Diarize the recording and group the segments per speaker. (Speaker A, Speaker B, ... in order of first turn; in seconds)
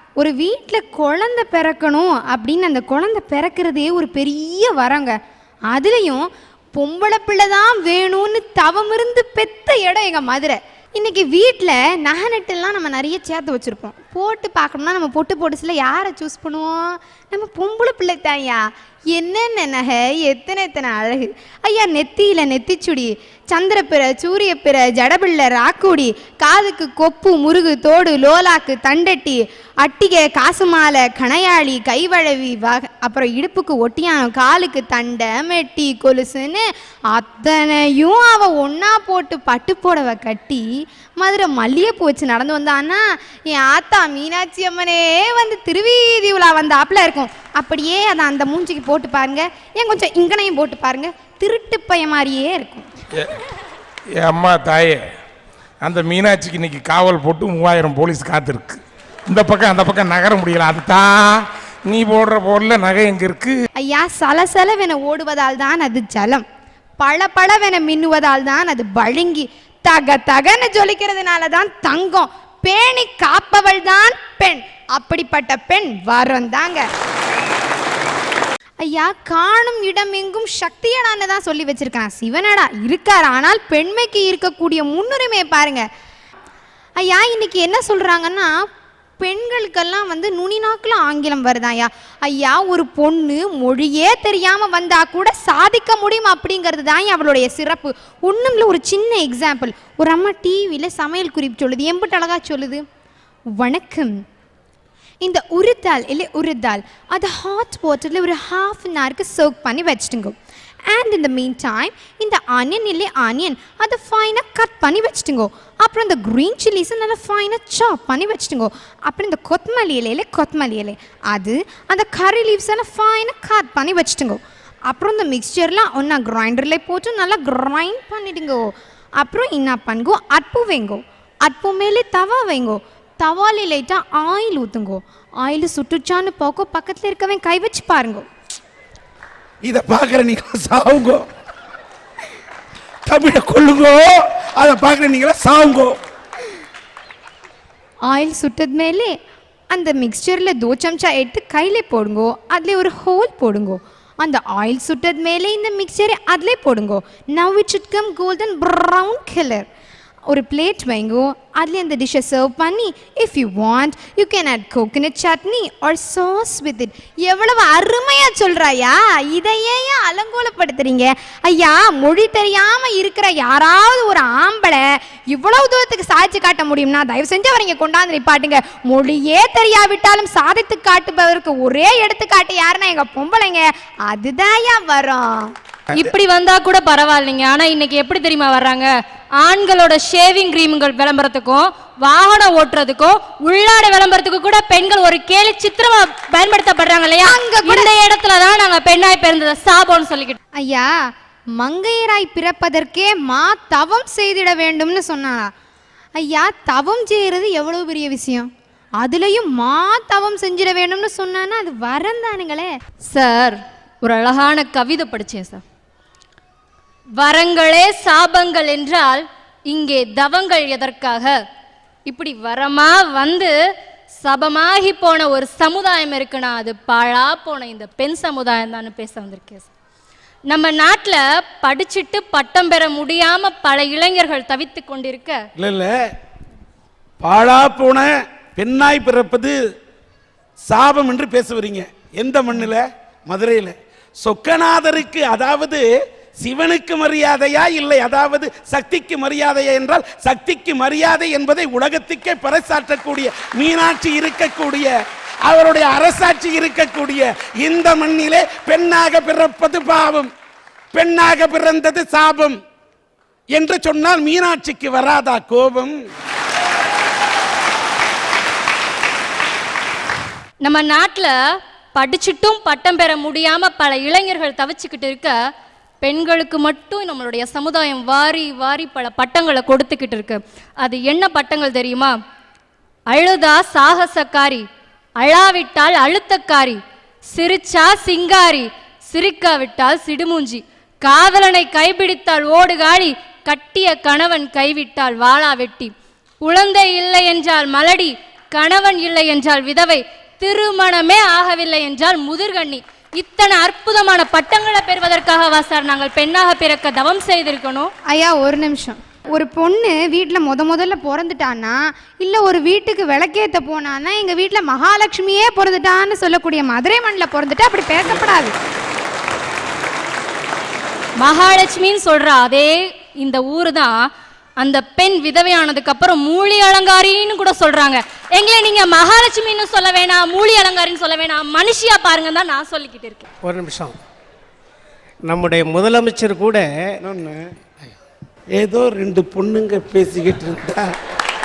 Speaker A: 0.2-5.2, 5.7-40.6, 41.2-52.9, 63.8-66.4, 67.0-76.9, 78.8-85.8, 87.0-88.5, 89.2-102.8, 103.6-104.2, 105.2-110.3, 110.9-138.2, 148.1-149.2, 149.7-159.7, 160.3-185.5, 197.2-197.9, 200.6-200.9, 201.6-205.5, 206.2-212.7, 308.1-318.5
Speaker B: 54.2-55.0, 55.8-63.6
Speaker C: 139.6-141.2, 143.1-145.9, 235.6-235.9, 237.2-239.5, 240.7-245.8, 246.4-254.9, 255.4-260.3, 260.9-262.6, 263.5-265.9, 337.0-337.4, 338.6-340.8
Speaker D: 185.9-188.9, 189.4-200.4, 213.1-215.6, 217.2-221.3, 222.1-223.5, 224.2-229.7, 230.5-235.4, 270.6-271.3, 271.9-275.3, 276.0-282.1, 283.1-284.6, 285.2-295.9, 296.4-307.9, 321.2-324.0, 324.6-333.2
Speaker E: 333.4-334.0, 335.2-336.7